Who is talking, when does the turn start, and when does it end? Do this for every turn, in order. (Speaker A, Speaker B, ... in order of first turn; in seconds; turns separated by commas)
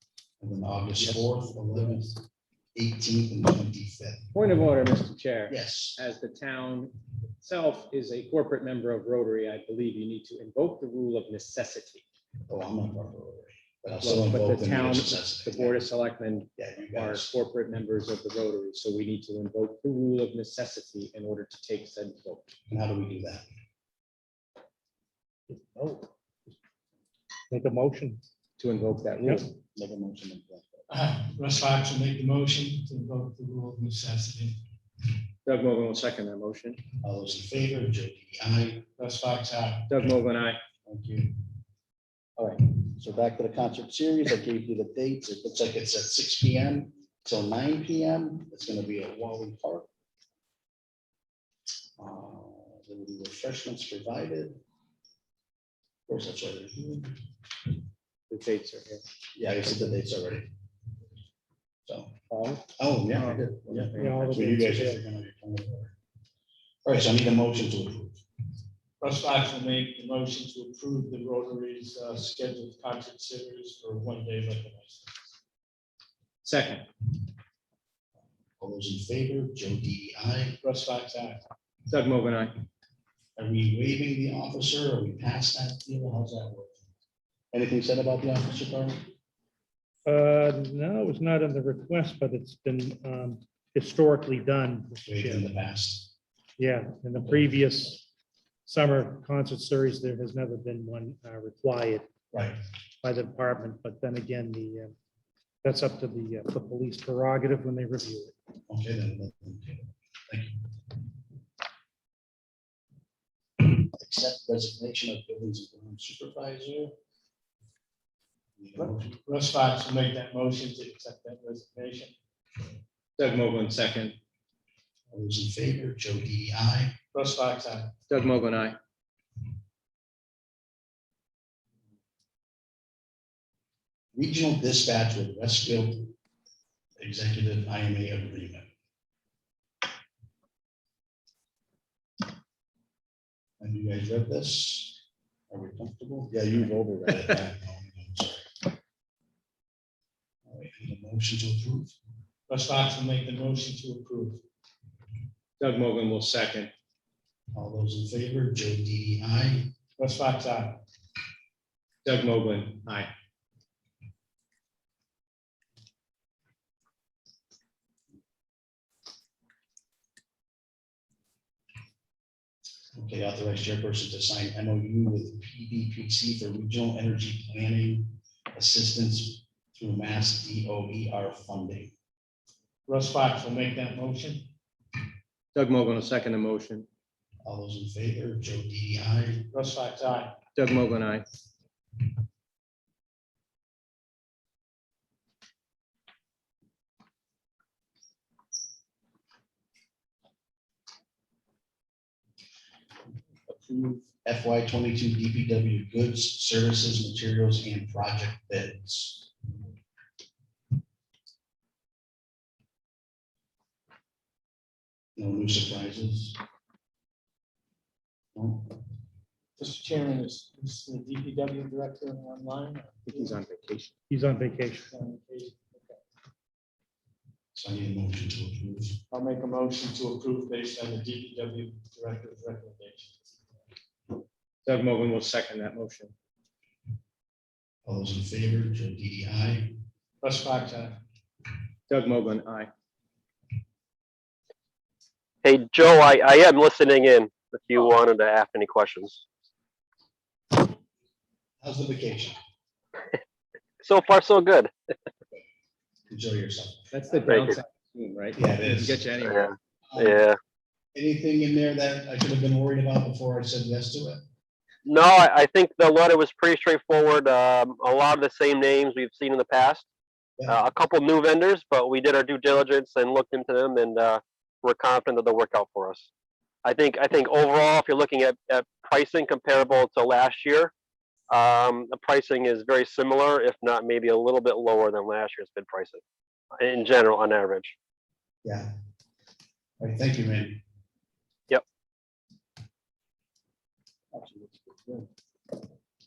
Speaker A: 0.4-4.3, Speaker B: 4.3-12.0, Speaker A: 5.5-6.0, Speaker A: 12.5-15.8, Speaker B: 14.0-22.5, Speaker A: 16.6-17.3, Speaker A: 22.7-23.5, Speaker C: 25.5-26.1, Speaker C: 27.5-28.2, Speaker B: 28.6-29.4, Speaker A: 29.8-30.8, Speaker D: 30.9-34.6, Speaker B: 35.5-36.8, Speaker A: 37.0-38.9, Speaker D: 39.0-39.9, Speaker B: 39.9-40.6, Speaker A: 40.9-41.4, Speaker A: 42.8-49.9, Speaker A: 52.0-54.6, Speaker A: 56.1-57.2, Speaker B: 58.3-59.0, Speaker A: 59.4-60.5, Speaker A: 61.9-62.2, Speaker B: 62.3-64.6, Speaker A: 62.8-66.0, Speaker C: 64.0-65.0, Speaker A: 66.8-68.2, Speaker D: 69.0-75.1, Speaker B: 76.4-76.9, Speaker A: 78.6-80.6, Speaker D: 80.6-81.4, Speaker B: 81.9-82.5, Speaker A: 83.4-86.9, Speaker A: 87.5-89.0, Speaker C: 90.1-95.5, Speaker A: 95.0-96.1, Speaker C: 96.6-98.0, Speaker A: 97.2-97.5, Speaker C: 98.7-102.1, Speaker C: 103.0-105.0, Speaker C: 105.6-108.3, Speaker A: 108.7-110.7, Speaker A: 113.6-116.9, Speaker A: 118.6-119.2, Speaker D: 118.8-122.1, Speaker B: 123.2-124.2, Speaker A: 125.1-127.0, Speaker D: 127.1-127.9, Speaker B: 128.1-128.8, Speaker A: 134.1-136.2, Speaker A: 137.0-138.7, Speaker A: 143.6-148.7, Speaker A: 150.5-151.9, Speaker D: 152.5-154.4, Speaker B: 155.6-156.7, Speaker A: 157.5-159.7, Speaker D: 160.0-160.8, Speaker B: 162.0-163.1, Speaker A: 172.9-181.9, Speaker D: 182.9-184.5, Speaker B: 185.6-186.9, Speaker A: 187.4-189.5, Speaker D: 189.5-190.4, Speaker B: 190.6-191.2, Speaker A: 203.5-209.3, Speaker A: 215.2-216.4, Speaker A: 218.3-218.8, Speaker D: 219.6-223.3, Speaker B: 223.1-223.9, Speaker C: 224.1-224.9, Speaker D: 224.8-226.0, Speaker A: 227.5-229.0, Speaker D: 229.1-233.3, Speaker B: 234.6-236.1, Speaker A: 237.8-239.7, Speaker D: 240.2-241.0, Speaker B: 241.9-242.7, Speaker E: 245.4-249.2, Speaker A: 251.6-252.4, Speaker E: 253.8-254.7, Speaker A: 256.1-256.9, Speaker B: 256.9-259.5, Speaker E: 257.2-257.6, Speaker A: 258.4-259.1, Speaker E: 259.2-260.4, Speaker A: 259.9-260.2, Speaker A: 260.9-264.2, Speaker E: 264.9-269.9, Speaker E: 270.5-276.1, Speaker E: 276.6-280.7, Speaker E: 281.3-286.0, Speaker E: 286.6-287.8, Speaker A: 288.4-288.7, Speaker A: 289.8-290.6, Speaker A: 294.1-295.1